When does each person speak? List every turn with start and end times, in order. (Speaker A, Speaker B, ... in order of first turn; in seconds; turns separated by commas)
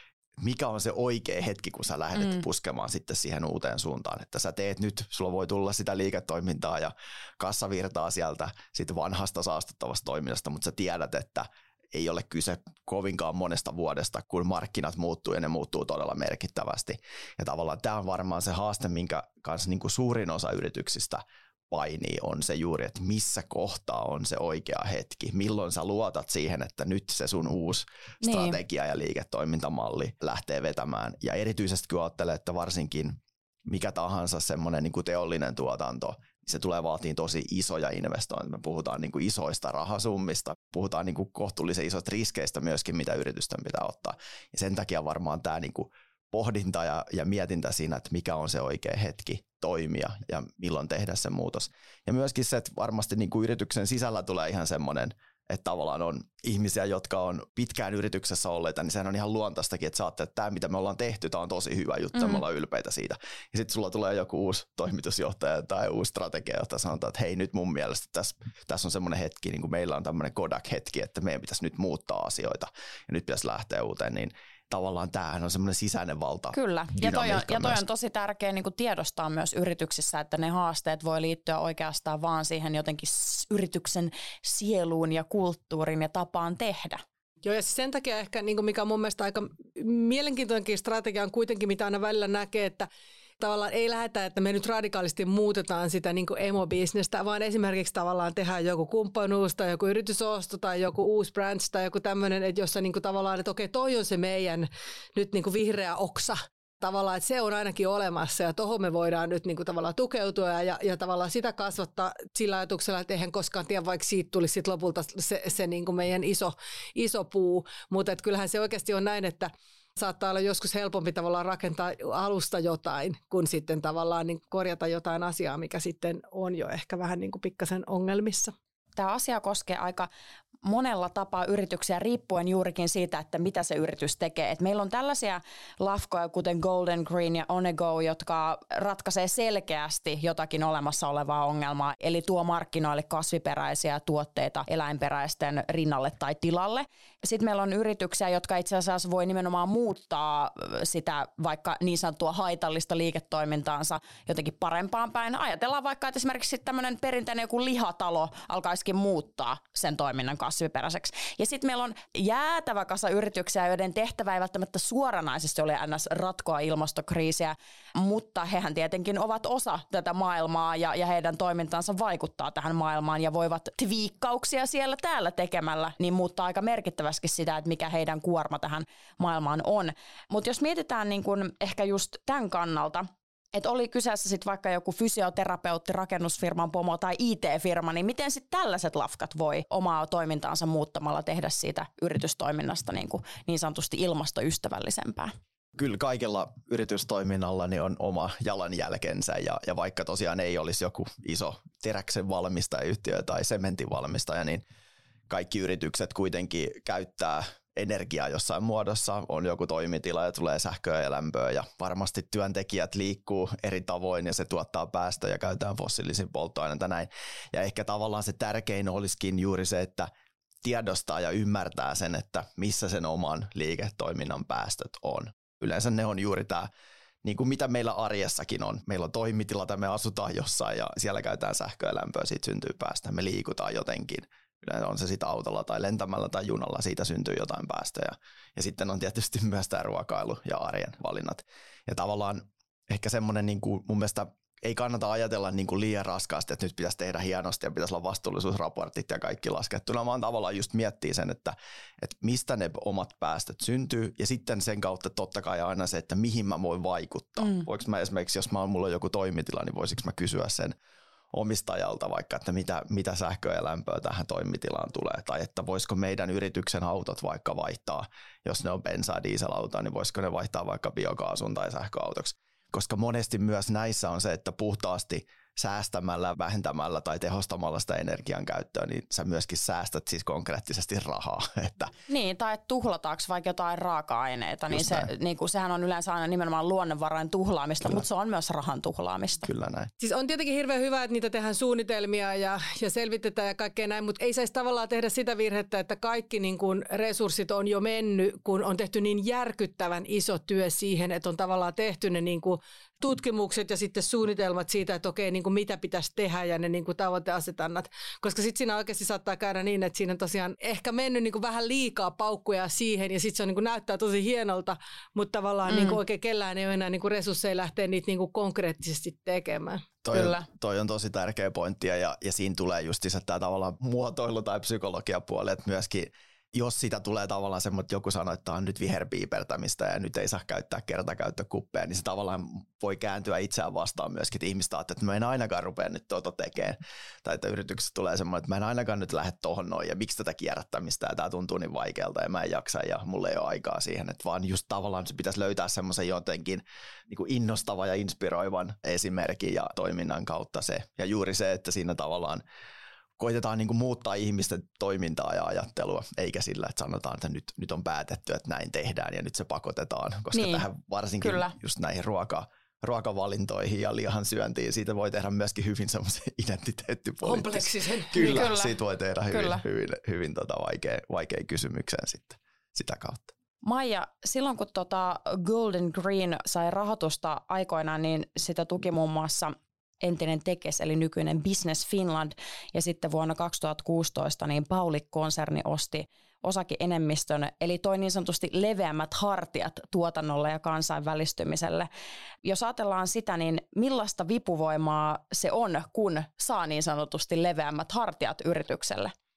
Speaker A: 0.4-77.8, Speaker B: 28.2-28.6, Speaker B: 62.2-62.4, Speaker B: 76.5-87.0, Speaker C: 87.4-92.9, Speaker C: 93.4-128.5, Speaker B: 129.0-130.1, Speaker B: 130.6-195.3, Speaker A: 195.8-204.6, Speaker A: 205.3-220.1, Speaker A: 220.6-226.7, Speaker A: 227.2-260.7, Speaker A: 261.3-281.9, Speaker B: 282.1-289.5, Speaker A: 284.7-285.1, Speaker A: 289.4-289.9, Speaker C: 290.0-319.9, Speaker B: 315.7-316.0, Speaker A: 320.0-352.4, Speaker B: 320.1-320.5, Speaker A: 353.2-373.3, Speaker B: 360.3-360.6, Speaker B: 361.2-361.5, Speaker C: 367.2-368.4, Speaker B: 368.1-368.8, Speaker B: 369.3-369.6, Speaker B: 373.6-391.9, Speaker B: 392.4-399.1